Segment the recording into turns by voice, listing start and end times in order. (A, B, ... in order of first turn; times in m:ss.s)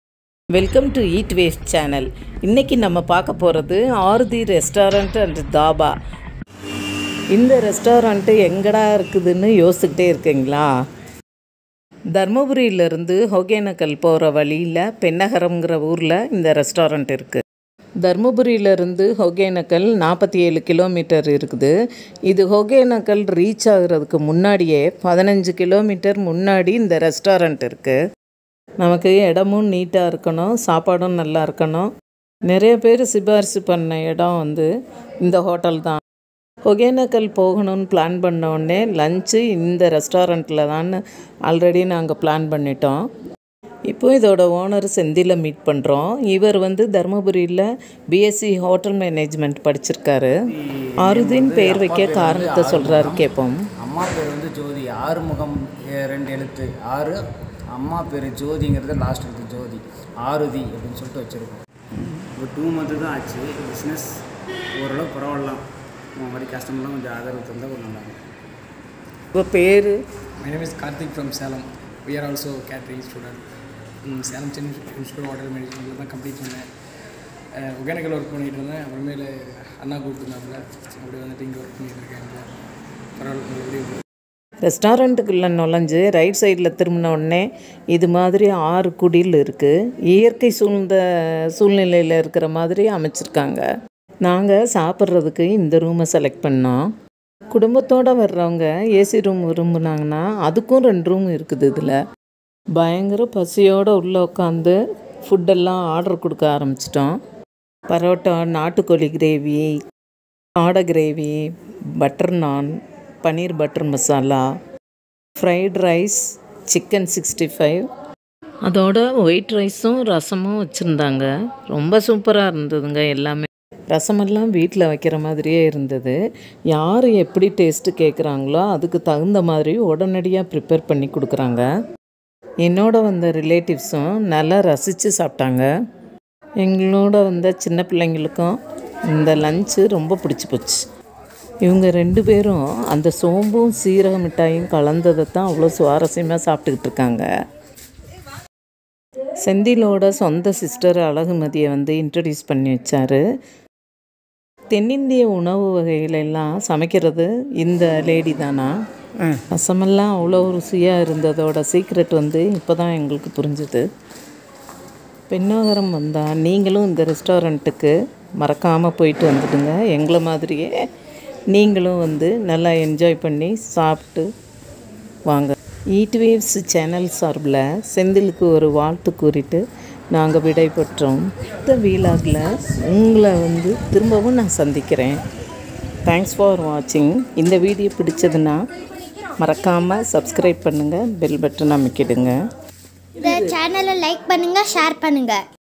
0:00.6-0:05.9 A
0:07.3-0:10.7 A
0:12.2-0:17.4 A
0:18.0-0:21.7 A
0:22.3-0:28.0 A
0:28.8-0:31.9 A
0:32.5-0:34.7 A
0:35.2-0:36.0 A
0:36.7-0:43.1 A
0:43.9-0:50.3 A
0:50.7-0:53.2 B
0:51.0-0:53.7 A
0:53.8-0:57.2 B
0:57.7-1:01.6 B
1:02.4-1:04.1 B
1:04.8-1:08.2 B
1:09.4-1:10.0 A
1:10.4-1:13.4 C
1:14.1-1:16.7 C
1:17.6-1:22.5 C
1:23.2-1:24.0 C
1:24.6-1:31.0 A
1:31.5-1:33.7 A
1:34.2-1:36.8 A
1:37.5-1:42.0 A
1:42.8-1:47.2 A
1:47.9-1:49.7 A
1:50.6-1:51.4 A
1:52.0-1:52.7 A
1:53.2-1:54.5 A
1:55.4-1:57.8 A
1:58.6-2:06.2 A
2:06.7-2:11.7 A
2:12.6-2:15.7 A
2:16.6-2:18.6 A
2:19.1-2:20.8 A
2:21.6-2:27.3 A
2:29.4-2:33.2 A
2:34.7-2:38.8 A
2:39.5-2:43.8 A
2:45.3-2:50.7 A
2:51.5-2:54.3 A
2:55.3-2:59.6 A
3:00.1-3:05.2 A
3:06.1-3:08.6 A
3:09.4-3:12.4 A
3:13.2-3:15.4 D